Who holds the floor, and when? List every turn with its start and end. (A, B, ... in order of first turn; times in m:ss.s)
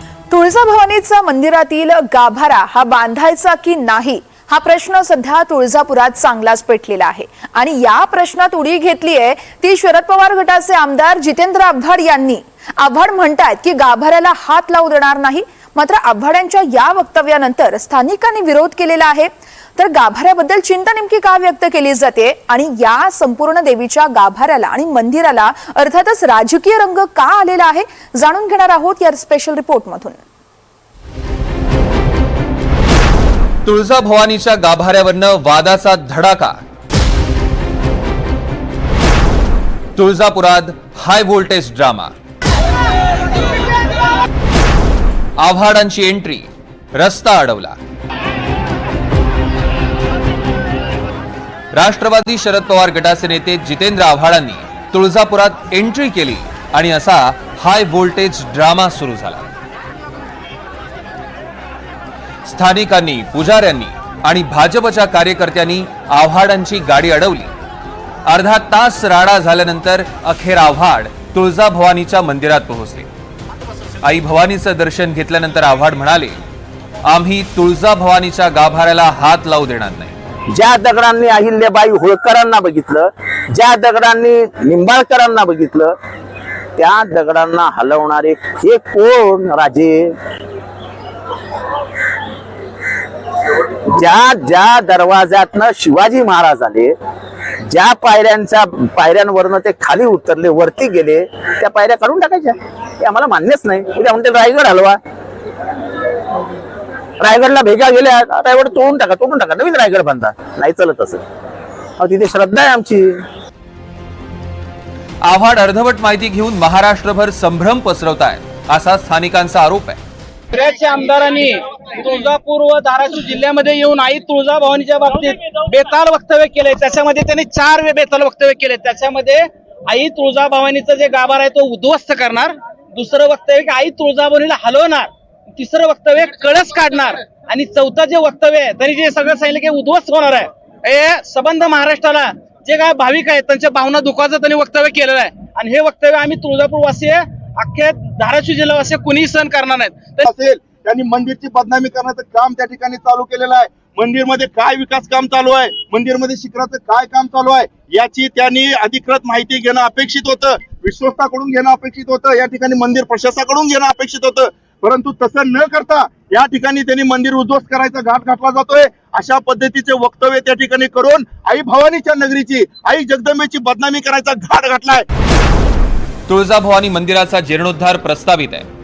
0:00.3-0:30.2 A
0:33.6-0:36.6 B
0:40.0-0:42.1 B
0:45.4-0:47.8 B
0:51.7-0:59.5 B
1:02.4-1:07.5 B
1:08.3-1:13.1 B
1:14.0-1:16.4 B
1:17.1-1:20.1 B
1:20.5-1:26.0 C
1:26.8-1:30.2 C
1:33.8-1:37.0 C
1:37.6-1:45.0 C
1:47.2-1:51.2 C
1:52.0-1:53.2 C
1:55.2-2:00.0 B
2:00.5-2:30.3 D
2:30.2-2:55.0 E
2:56.3-2:58.7 B